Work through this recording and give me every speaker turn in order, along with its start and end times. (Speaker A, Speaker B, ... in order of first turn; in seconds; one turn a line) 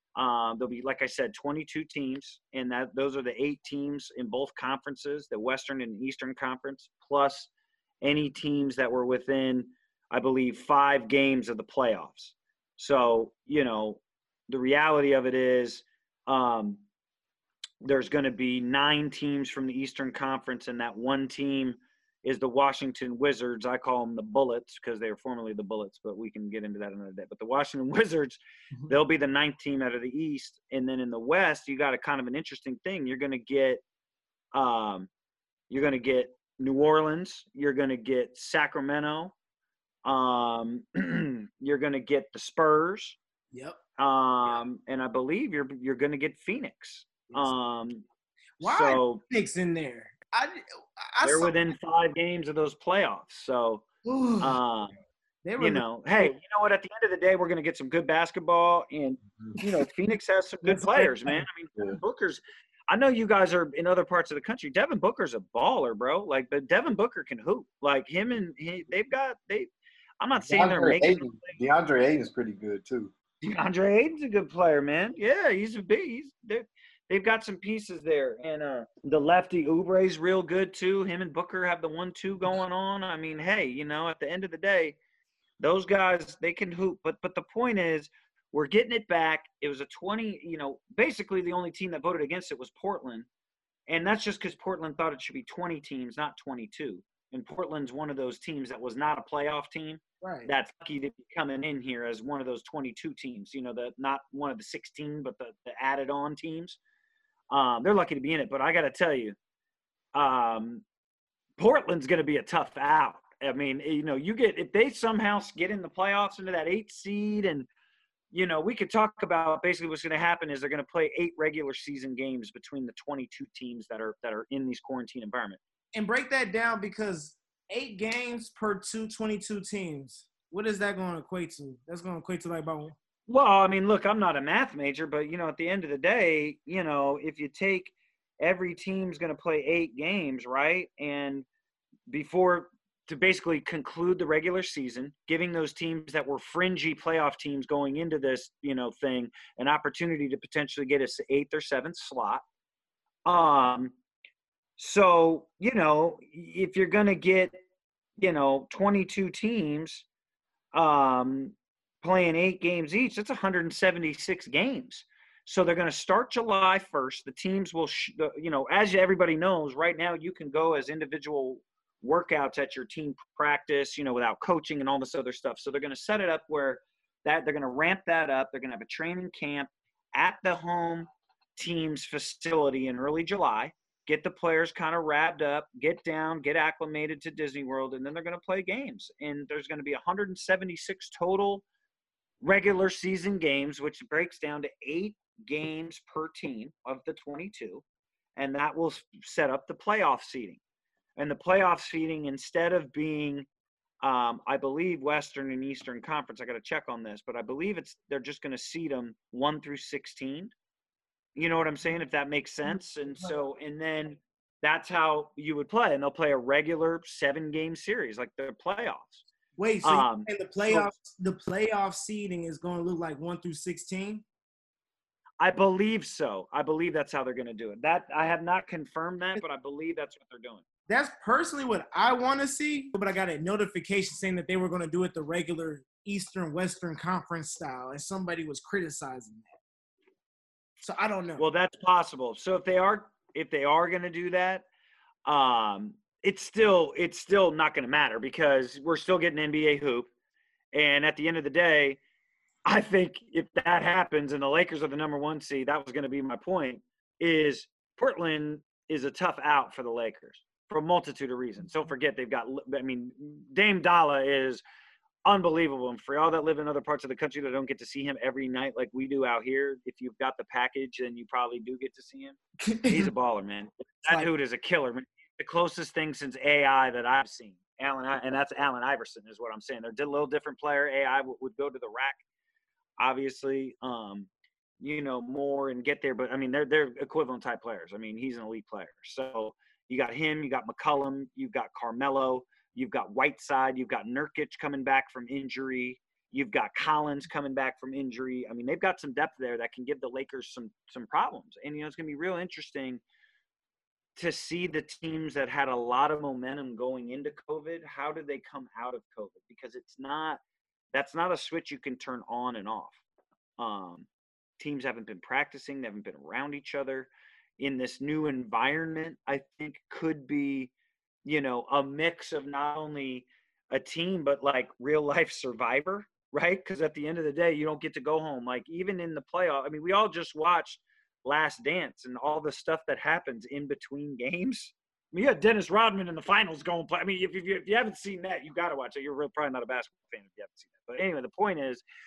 Speaker A: 0.1-7.5
Speaker A: 8.0-16.8
Speaker A: 17.8-33.8
Speaker A: 34.5-35.1
Speaker A: 35.7-39.3
Speaker A: 40.0-43.2
Speaker B: 43.5-43.8
Speaker A: 44.0-48.0
Speaker B: 48.6-51.5
Speaker A: 48.6-49.2
Speaker A: 51.2-53.9
Speaker B: 54.0-54.6
Speaker A: 54.4-54.9
Speaker B: 55.4-56.3
Speaker A: 55.6-71.6
Speaker B: 60.6-61.4
Speaker C: 70.4-73.1
Speaker A: 73.4-85.0
Speaker A: 85.6-93.3
Speaker A: 93.9-106.8
Speaker B: 100.2-100.5
Speaker A: 107.5-109.3
Speaker A: 110.1-110.8
Speaker A: 111.6-117.7
Speaker A: 118.3-125.6
Speaker B: 125.9-132.9
Speaker A: 133.3-141.4
Speaker A: 142.1-152.4
Speaker A: 153.2-153.9
Speaker A: 154.8-157.6
Speaker A: 158.2-160.0
Speaker A: 160.7-191.6
Speaker A: 192.4-197.8
Speaker A: 198.3-200.6
Speaker A: 201.2-203.5
Speaker A: 204.0-210.5
Speaker A: 211.3-219.2
Speaker B: 219.6-224.2
Speaker A: 219.8-220.9
Speaker A: 225.4-230.6
Speaker B: 230.9-239.5
Speaker B: 240.8-241.4
Speaker A: 241.4-244.6
Speaker A: 245.2-250.1
Speaker A: 250.7-252.0
Speaker A: 252.7-264.6
Speaker A: 265.2-282.2
Speaker B: 272.6-273.1
Speaker A: 283.0-284.3
Speaker A: 284.8-303.0
Speaker A: 304.2-310.4
Speaker A: 310.9-313.0
Speaker A: 313.6-314.1
Speaker A: 314.6-320.7
Speaker A: 321.2-341.8